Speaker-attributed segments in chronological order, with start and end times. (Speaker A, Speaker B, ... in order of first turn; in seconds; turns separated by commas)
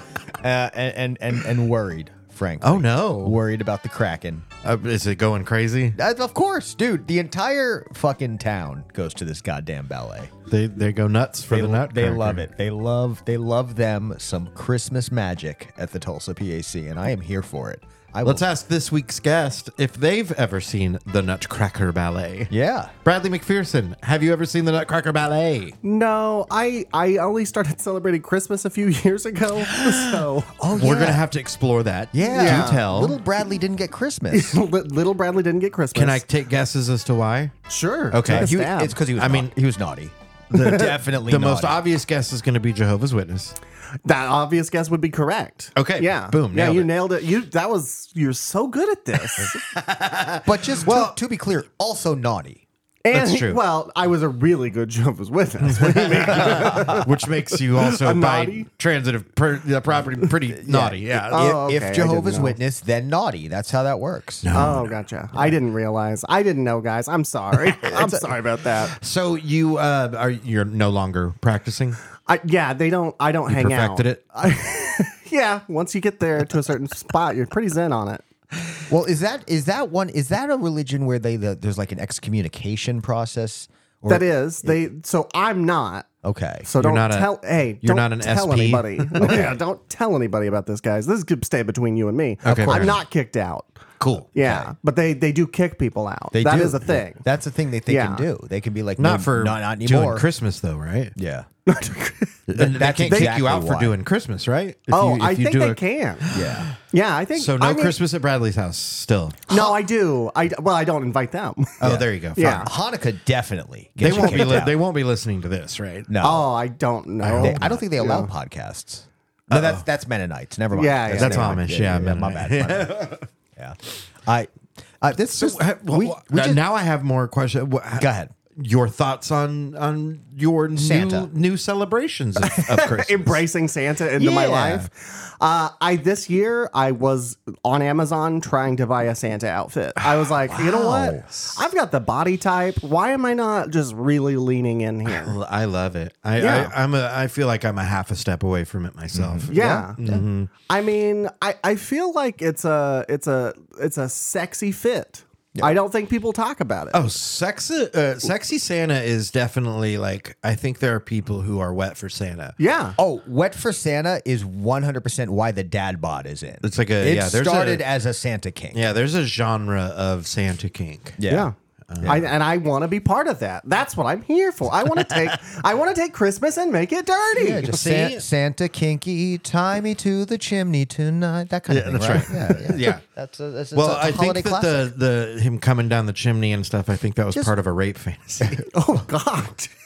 Speaker A: 0.4-4.5, Speaker B: 2.6-3.4, Speaker B: 4.6-6.0, Speaker A: 5.9-10.3, Speaker B: 10.5-12.5, Speaker A: 11.5-18.4, Speaker B: 18.2-22.5, Speaker A: 22.5-22.9, Speaker B: 23.0-25.8, Speaker C: 25.8-30.5, Speaker B: 29.6-33.2, Speaker A: 30.6-31.2, Speaker A: 32.1-34.6, Speaker C: 32.3-32.8, Speaker C: 34.3-36.2, Speaker B: 35.9-37.5, Speaker C: 37.7-39.0, Speaker B: 38.1-38.6, Speaker A: 38.2-41.8, Speaker B: 39.1-39.5, Speaker B: 40.5-43.5, Speaker C: 44.0-49.6, Speaker B: 45.8-46.9, Speaker B: 49.7-51.1, Speaker A: 50.4-52.6, Speaker C: 53.0-58.7, Speaker B: 53.1-53.6, Speaker B: 55.6-61.5, Speaker A: 60.6-64.5, Speaker C: 61.3-62.6, Speaker B: 64.4-64.9, Speaker C: 64.5-68.9, Speaker A: 67.8-68.2, Speaker B: 68.9-72.0, Speaker C: 72.3-78.2, Speaker B: 73.5-74.3, Speaker A: 78.9-84.7, Speaker C: 84.1-86.1, Speaker A: 86.2-86.7, Speaker C: 86.6-93.8, Speaker B: 86.8-89.5, Speaker B: 92.4-93.0, Speaker A: 92.5-93.0, Speaker B: 94.0-94.3, Speaker C: 94.3-97.2, Speaker A: 94.4-94.7, Speaker A: 96.3-100.3, Speaker C: 97.9-98.2, Speaker B: 99.0-101.1, Speaker A: 101.2-101.5, Speaker C: 101.7-102.4, Speaker B: 102.5-106.8, Speaker A: 102.5-104.0, Speaker C: 103.1-103.3, Speaker C: 104.9-106.3, Speaker A: 106.3-106.7, Speaker C: 106.9-108.0, Speaker B: 107.3-109.6, Speaker C: 109.5-111.8, Speaker B: 111.8-112.7, Speaker A: 111.8-114.8, Speaker C: 112.4-112.7, Speaker B: 114.0-116.1, Speaker A: 116.1-116.5, Speaker C: 116.2-118.3, Speaker B: 117.2-117.8, Speaker A: 117.4-126.6, Speaker B: 119.5-119.8, Speaker C: 120.7-121.5, Speaker B: 121.1-123.2, Speaker B: 125.3-133.4, Speaker A: 128.0-128.3, Speaker A: 130.8-131.3, Speaker C: 132.4-145.3, Speaker A: 134.2-134.8, Speaker A: 140.5-141.3, Speaker B: 145.1-150.5, Speaker C: 146.4-146.7, Speaker A: 149.1-150.2, Speaker C: 149.5-150.0, Speaker C: 150.7-157.1, Speaker B: 156.9-162.6, Speaker C: 162.6-162.9, Speaker A: 163.0-168.8, Speaker B: 166.6-167.8, Speaker B: 168.7-171.2, Speaker A: 171.2-172.3, Speaker C: 171.3-178.1, Speaker B: 171.9-172.2, Speaker B: 175.0-175.2, Speaker A: 177.3-184.9, Speaker B: 177.8-178.2, Speaker B: 181.7-183.0, Speaker B: 183.7-188.7, Speaker C: 188.7-189.7